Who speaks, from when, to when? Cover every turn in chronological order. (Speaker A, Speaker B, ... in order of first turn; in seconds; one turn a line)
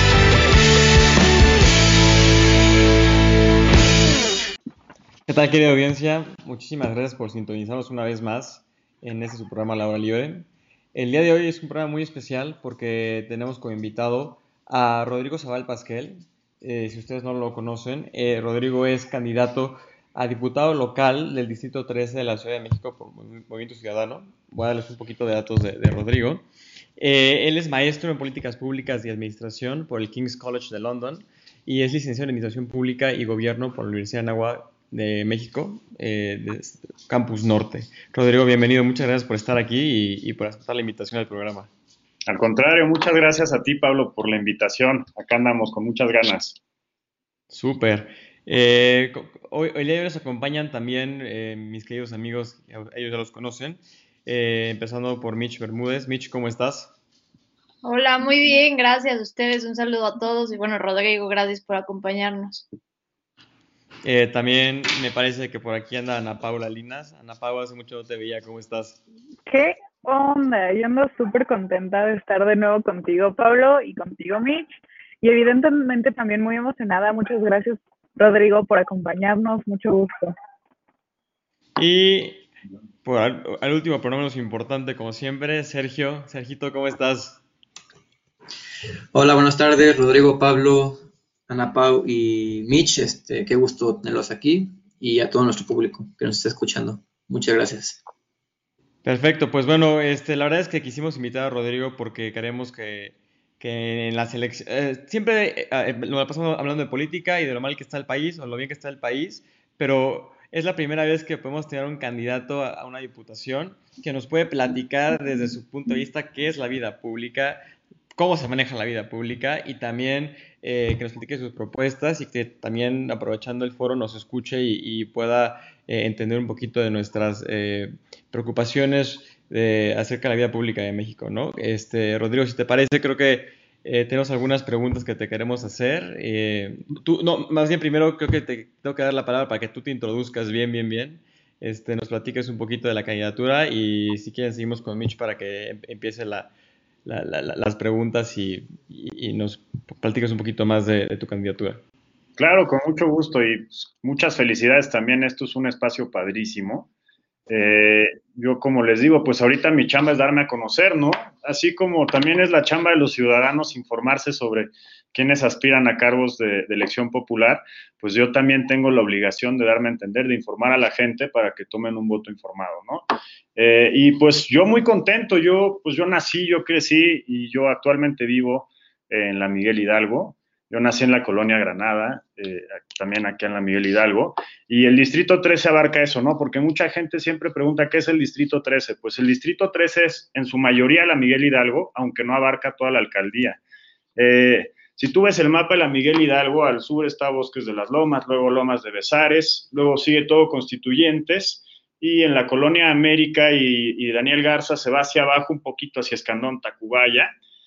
Speaker A: 5.3-26.4
Speaker A: 27.0-41.7
Speaker B: 42.3-46.6
Speaker A: 47.5-56.9
Speaker C: 57.8-62.7
Speaker A: 64.0-69.0
Speaker D: 69.5-80.3
Speaker A: 81.8-82.4
Speaker A: 83.0-87.4
Speaker E: 89.1-98.0
Speaker A: 99.0-117.6
Speaker A: 118.1-146.5
Speaker A: 147.1-151.8
Speaker B: 152.4-156.9
Speaker B: 157.5-193.6
Speaker B: 194.2-207.3